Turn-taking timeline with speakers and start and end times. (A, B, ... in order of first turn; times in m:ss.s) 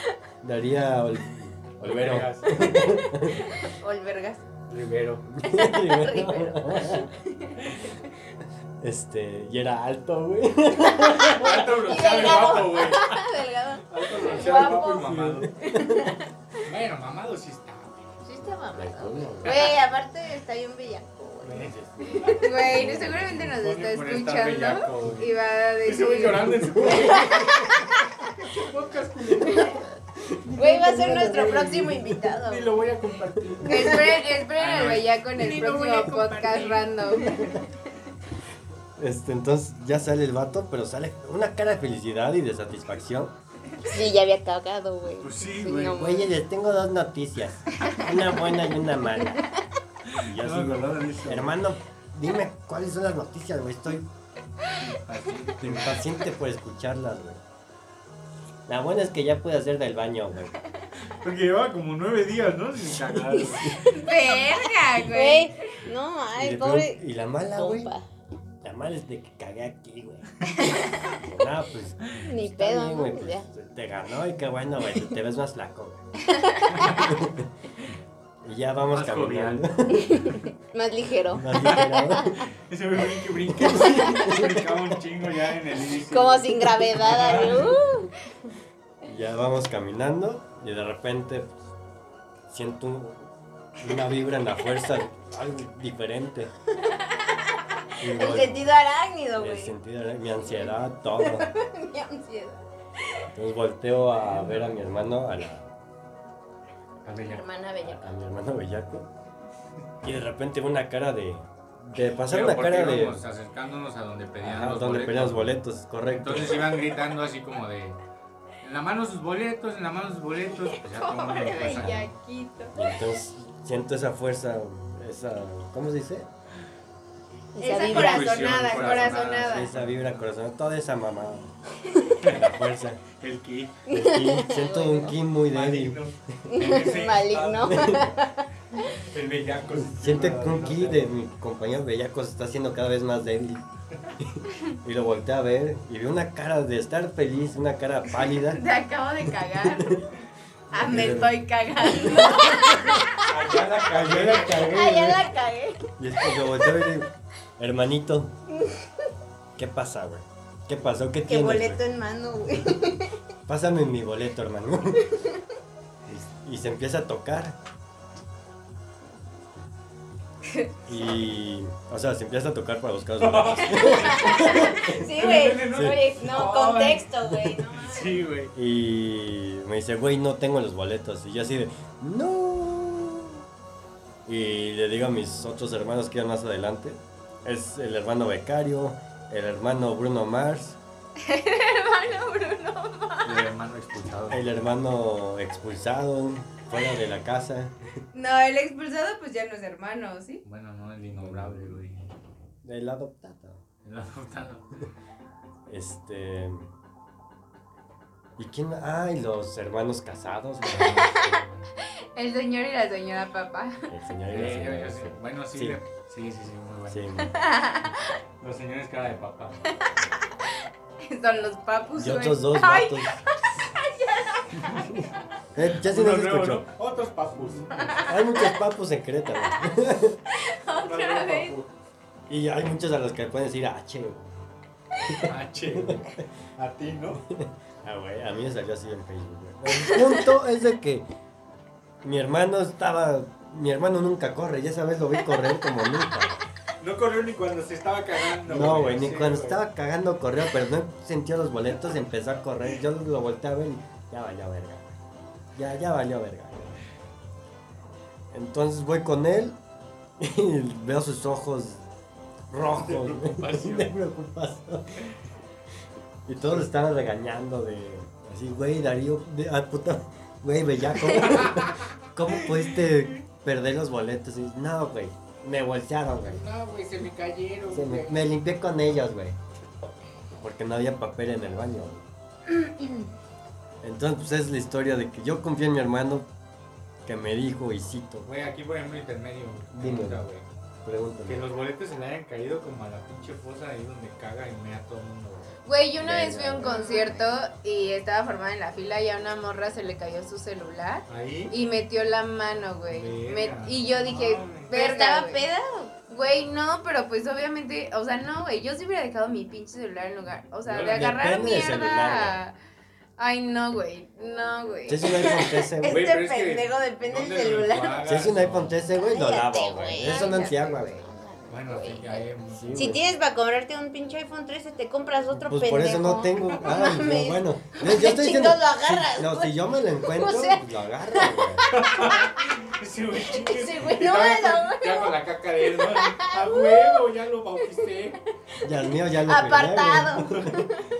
0:00.4-0:03.5 A
0:01.8-0:02.9 B
0:02.7-0:04.4 C
0:04.7-0:05.2 B
0:05.2-0:07.1 A
0:05.4-0:07.8 C
0:08.8-0:12.6 A
0:10.9-0:15.1 C
0:11.2-0:13.2 B
0:13.9-0:15.5 B
0:14.4-0:16.2 A
0:15.6-0:16.2 C
0:16.6-0:18.2 B
0:18.2-0:22.5 C
0:18.7-0:19.7 A
0:21.4-0:21.8 B
0:21.6-0:23.5 A
0:22.3-0:26.5 D
0:22.6-0:27.7 B
0:26.7-0:27.5 A
0:26.9-0:27.8 C
0:28.4-0:29.8 B
0:30.2-0:32.2 A
0:30.5-0:32.8 C
0:31.1-0:31.6 B
0:32.3-0:37.6 B
0:33.4-0:33.8 A
0:33.6-0:37.4 D
0:37.2-0:37.6 A
0:39.0-0:43.3 A
0:43.8-0:46.2 C
0:45.2-0:46.3 B
0:45.9-0:49.4 A
0:50.1-0:51.6 B
0:50.2-0:54.1 A
0:54.7-0:56.0 B
0:55.6-0:57.4 A
0:58.7-1:00.6 A
1:01.1-1:04.0 B
1:03.8-1:05.5 D
1:05.1-1:07.0 C
1:06.3-1:07.9 A
1:07.5-1:08.0 C
1:08.6-1:10.2 A
1:10.6-1:11.1 C
1:11.1-1:16.0 A
1:12.1-1:13.4 C
1:16.3-1:17.1 C
1:16.7-1:17.1 B
1:17.0-1:17.5 A
1:18.4-1:20.4 A
1:18.9-1:19.6 B
1:19.9-1:22.4 C
1:21.3-1:22.5 A
1:22.7-1:27.8 B
1:23.4-1:24.7 A
1:26.0-1:28.1 C
1:29.0-1:31.6 A
1:32.5-1:36.5 A
1:36.8-1:39.7 C
1:38.0-1:38.7 A
1:39.4-1:41.5 A
1:40.5-1:42.6 C
1:43.3-1:45.7 A
1:43.9-1:44.8 B
1:47.0-1:47.4 B
1:47.0-1:48.1 C
1:47.8-1:49.1 A
1:50.0-1:53.2 A
1:52.2-1:55.6 B
1:54.4-1:56.9 A
1:56.1-1:58.0 B
1:58.6-2:02.1 B
2:00.6-2:02.8 D
2:02.7-2:06.3 A
2:07.5-2:09.0 C
2:07.6-2:09.7 D
2:07.8-2:10.3 B
2:08.7-2:11.5 A
2:12.2-2:12.5 B
2:12.2-2:13.0 A
2:13.1-2:13.8 B
2:13.9-2:16.4 A
2:13.9-2:15.2 C
2:15.5-2:18.2 B
2:16.5-2:18.4 C
2:17.6-2:18.1 A
2:18.8-2:21.2 B
2:19.7-2:23.6 A
2:24.2-2:28.6 A
2:28.3-2:30.0 C
2:29.2-2:30.0 A
2:30.7-2:33.3 C
2:30.7-2:33.0 A
2:33.2-2:34.8 B
2:33.9-2:35.3 A
2:34.5-2:36.7 C
2:36.0-2:38.3 A
2:39.6-2:41.8 A
2:41.2-2:43.2 C
2:43.5-2:45.1 A
2:46.0-2:47.6 A
2:50.9-2:55.1 A
2:53.2-2:57.2 B
2:53.6-2:58.2 C
2:55.7-2:56.0 A
2:57.8-2:58.5 B
2:58.5-3:03.4 A
3:04.2-3:10.8 A
3:11.2-3:13.4 D
3:13.2-3:14.5 B
3:14.3-3:17.7 A
3:18.1-3:20.4 D
3:20.4-3:22.1 B
3:21.2-3:21.8 A
3:22.6-3:23.6 A
3:23.8-3:24.8 B
3:25.7-3:26.7 A
3:28.4-3:31.1 A
3:30.6-3:31.7 B
3:32.1-3:33.9 D
3:33.9-3:35.8 A
3:34.3-3:37.3 B
3:36.9-3:37.4 A
3:37.4-3:38.0 D
3:38.4-3:39.6 B
3:41.0-3:45.0 D
3:42.0-3:43.2 A
3:45.5-3:46.6 A
3:45.8-3:48.0 B
3:47.8-3:48.1 D
3:48.0-3:50.2 A
3:50.3-3:51.6 D
3:50.8-3:51.7 B
3:52.3-3:54.3 A
3:55.0-3:56.2 A
3:55.1-3:57.2 B
3:57.2-4:01.0 A
4:02.0-4:06.4 A
4:06.8-4:09.6 B
4:08.4-4:14.9 A
4:15.5-4:16.8 A
4:18.3-4:19.6 A
4:20.2-4:21.9 A
4:22.5-4:25.1 A
4:22.8-4:23.9 B
4:26.3-4:36.4 A
4:31.1-4:33.2 B
4:36.2-4:38.2 B
4:37.7-4:39.4 A
4:40.3-4:42.0 A
4:43.8-4:46.3 A
4:47.0-4:48.3 A
4:48.2-4:50.4 B
4:49.7-4:50.2 A
4:50.8-4:51.4 A
4:51.2-4:55.6 B
4:55.6-5:05.5 D
4:56.0-4:56.8 A
4:56.6-4:57.4 C
5:01.1-5:01.5 B
5:02.9-5:04.7 B
5:04.7-5:05.9 C
5:06.1-5:12.5 D
5:10.6-5:11.1 B
5:10.8-5:12.4 A
5:13.2-5:15.5 D
5:14.9-5:16.1 A
5:15.1-5:18.0 C
5:15.8-5:18.8 B
5:18.0-5:21.0 A
5:18.9-5:32.4 C
5:21.5-5:23.0 B
5:22.5-5:23.0 A
5:25.3-5:31.6 A
5:31.7-5:38.2 B
5:33.2-5:37.1 C
5:38.6-5:40.6 A
5:38.6-5:40.9 C